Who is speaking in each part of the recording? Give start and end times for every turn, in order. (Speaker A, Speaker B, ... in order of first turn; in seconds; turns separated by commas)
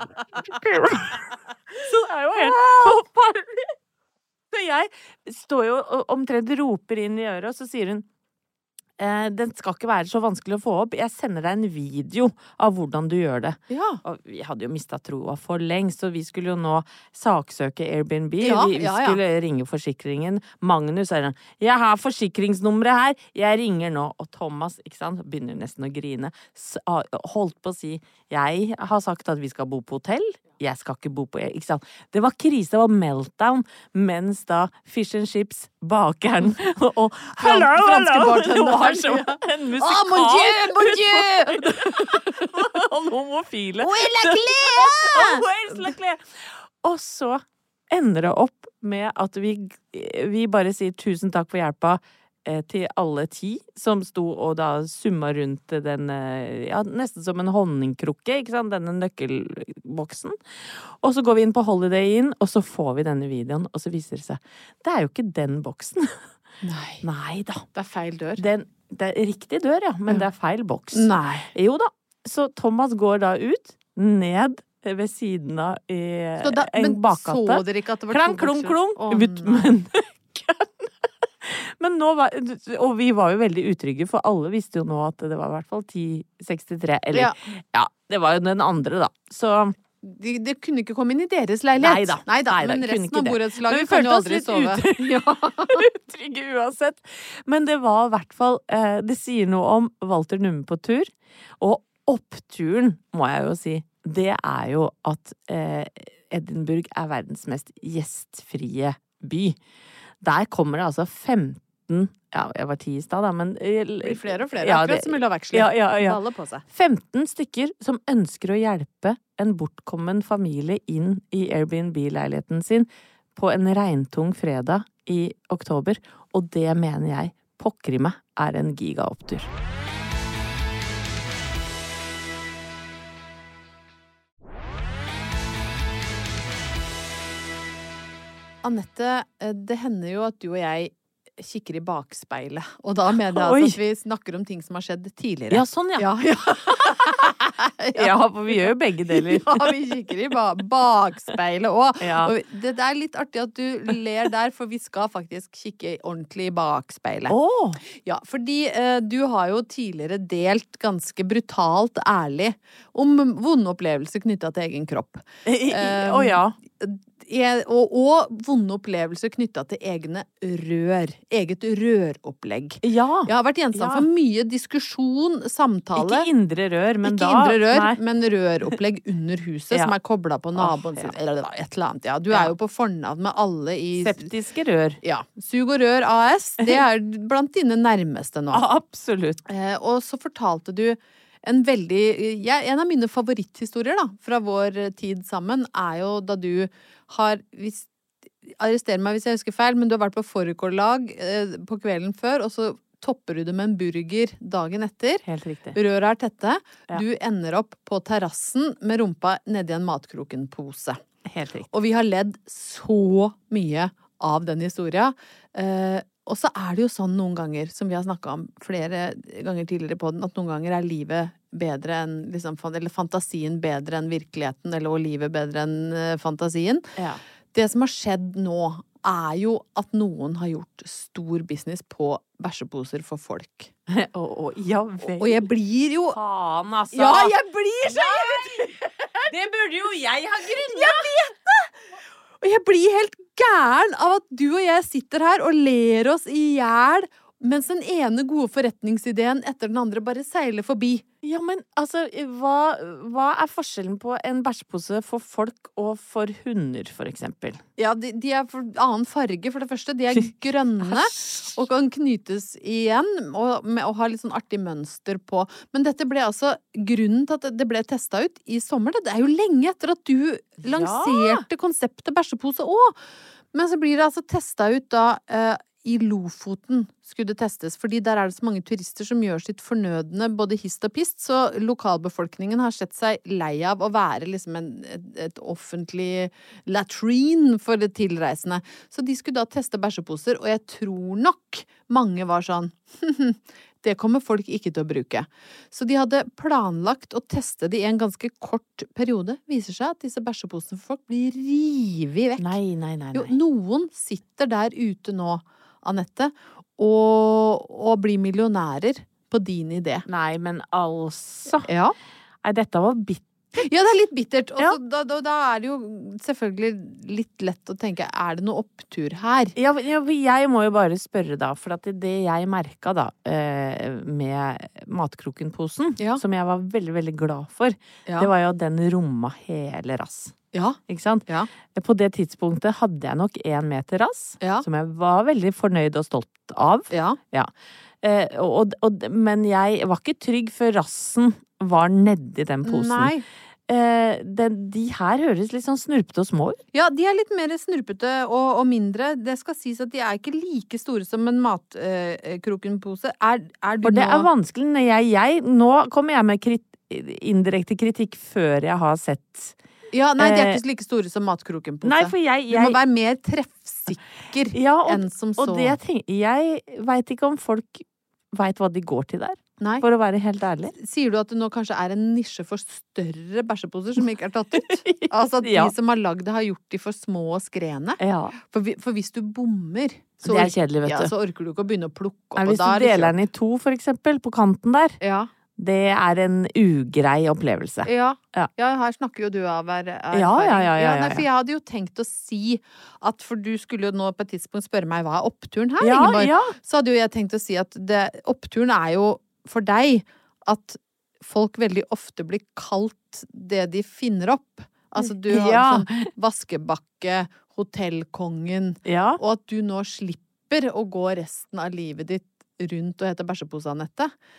Speaker A: 0.4-3.7, Speaker B: 2.6-2.9, Speaker A: 4.5-8.1, Speaker A: 9.0-66.2, Speaker B: 13.7-14.0, Speaker B: 18.4-19.2, Speaker B: 37.4-42.6, Speaker B: 43.8-45.9, Speaker B: 66.6-67.0, Speaker A: 67.0-67.7, Speaker B: 67.7-68.4, Speaker A: 68.4-89.8, Speaker B: 70.9-71.5, Speaker B: 76.4-79.7, Speaker B: 90.0-95.9, Speaker A: 91.8-109.6, Speaker A: 110.2-116.2, Speaker B: 114.0-116.6, Speaker A: 116.7-129.5, Speaker B: 138.6-148.1, Speaker A: 143.3-143.8, Speaker A: 145.5-146.1, Speaker A: 146.8-147.1, Speaker A: 147.9-149.8, Speaker B: 149.1-157.4, Speaker A: 152.0-152.3, Speaker A: 157.3-157.8, Speaker B: 157.9-176.3, Speaker A: 165.4-166.6, Speaker A: 172.8-174.1, Speaker A: 175.9-178.0, Speaker B: 177.0-184.3, Speaker A: 180.6-181.1, Speaker A: 184.0-185.0, Speaker B: 185.0-188.6, Speaker A: 188.5-189.4, Speaker B: 189.4-197.9, Speaker B: 198.4-211.0, Speaker A: 205.2-205.8, Speaker A: 211.2-211.7, Speaker B: 211.7-226.9, Speaker A: 226.9-227.2, Speaker B: 227.5-233.7, Speaker A: 233.9-235.4, Speaker B: 235.1-236.2, Speaker A: 236.1-238.7, Speaker B: 236.9-239.3, Speaker A: 239.2-241.1, Speaker B: 240.5-241.7, Speaker B: 242.4-251.0, Speaker A: 251.2-257.6, Speaker B: 257.8-273.0, Speaker A: 270.6-271.4, Speaker B: 273.5-302.6, Speaker A: 302.4-303.4, Speaker B: 303.1-310.1, Speaker A: 310.1-311.7, Speaker B: 311.6-311.9, Speaker A: 312.4-313.3, Speaker B: 313.5-319.6, Speaker A: 319.6-330.4, Speaker B: 330.5-331.5, Speaker A: 330.9-337.5, Speaker B: 334.4-334.6, Speaker B: 336.9-337.2, Speaker A: 338.0-343.1, Speaker B: 342.6-343.2, Speaker A: 343.7-346.6, Speaker B: 346.7-354.3, Speaker A: 353.8-359.6, Speaker B: 359.9-365.8, Speaker A: 360.2-360.6, Speaker A: 361.8-362.8, Speaker A: 364.5-370.7, Speaker B: 369.6-369.9, Speaker B: 370.7-383.2, Speaker A: 374.7-375.7, Speaker A: 378.0-378.4, Speaker A: 380.2-381.1, Speaker A: 382.4-385.0, Speaker B: 385.0-385.3, Speaker A: 385.6-388.5, Speaker B: 387.8-414.1, Speaker A: 390.1-391.2, Speaker A: 395.8-396.5, Speaker A: 405.0-406.1, Speaker A: 408.9-409.2